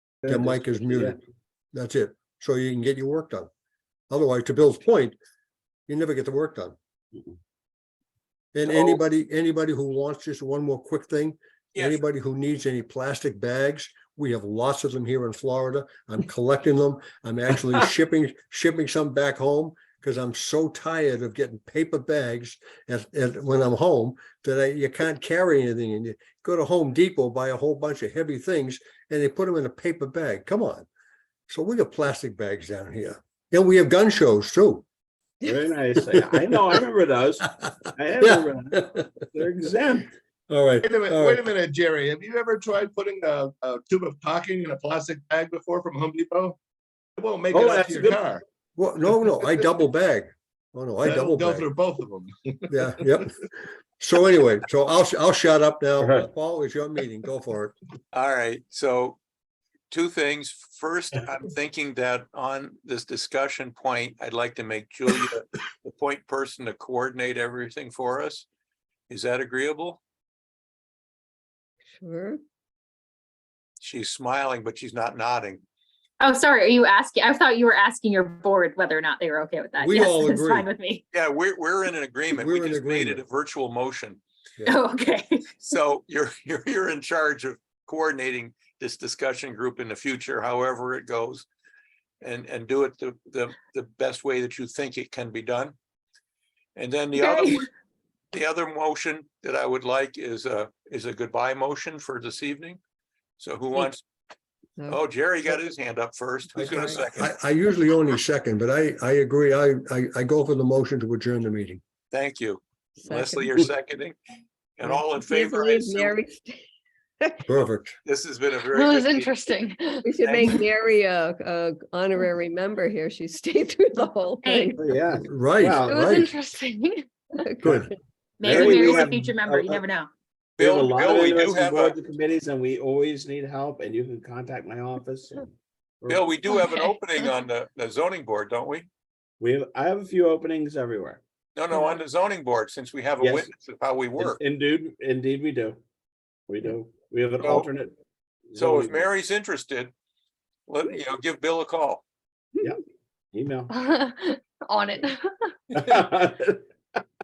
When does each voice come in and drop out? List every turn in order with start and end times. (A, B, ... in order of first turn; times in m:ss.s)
0:00.2-0:01.1 A
0:00.3-0:01.2 B
0:01.7-0:03.5 B
0:04.1-0:05.2 B
0:05.9-0:06.8 B
0:08.5-0:30.8 B
0:11.7-0:12.0 C
0:31.5-0:34.8 B
0:35.4-0:40.1 A
0:38.2-0:39.0 B
0:40.5-0:41.4 B
0:40.8-0:46.6 D
0:47.2-0:48.4 D
0:47.5-0:48.2 A
0:48.8-0:51.7 B
0:51.0-0:53.2 D
0:52.7-0:53.3 B
0:54.0-0:57.7 B
0:56.0-0:56.3 A
0:58.1-0:59.2 C
0:59.9-1:08.4 C
1:09.1-1:10.0 C
1:12.0-1:12.4 E
1:13.8-1:15.6 C
1:16.2-1:21.0 F
1:19.8-1:20.7 B
1:21.1-1:24.2 C
1:22.3-1:23.2 B
1:24.6-1:25.6 F
1:25.6-1:31.4 C
1:32.2-1:35.7 C
1:36.8-1:37.7 C
1:37.2-1:37.5 F
1:38.3-1:42.8 C
1:43.4-1:44.0 C
1:44.9-1:47.3 C
1:46.6-1:51.8 B
1:52.1-1:54.2 C
1:53.0-1:53.6 E
1:54.8-1:56.2 C
1:54.8-1:56.6 E
1:57.2-1:57.4 E
1:57.5-1:58.0 B
1:58.0-1:59.3 C
1:58.7-2:00.0 G
2:00.0-2:04.9 E
2:00.2-2:00.6 C
2:04.4-2:04.7 F
2:04.8-2:06.0 A
2:05.3-2:06.3 B
2:05.8-2:07.1 G
2:07.4-2:07.9 E
2:07.6-2:07.9 B
2:08.4-2:10.1 F
2:08.4-2:09.8 A
2:08.5-2:08.8 C
2:08.7-2:08.9 G
2:10.6-2:11.9 C
2:10.6-2:15.5 A
2:16.0-2:16.3 A
2:16.1-2:18.9 C
2:19.4-2:21.2 A
2:21.5-2:24.4 C
2:23.2-2:23.5 A
2:24.2-2:25.8 A
2:26.5-2:27.9 A
2:27.4-2:27.7 C
2:28.5-2:29.1 A
2:28.6-2:29.9 C
2:30.7-2:32.0 C
2:33.3-2:33.7 A
2:33.7-2:35.5 G
2:35.7-2:36.6 A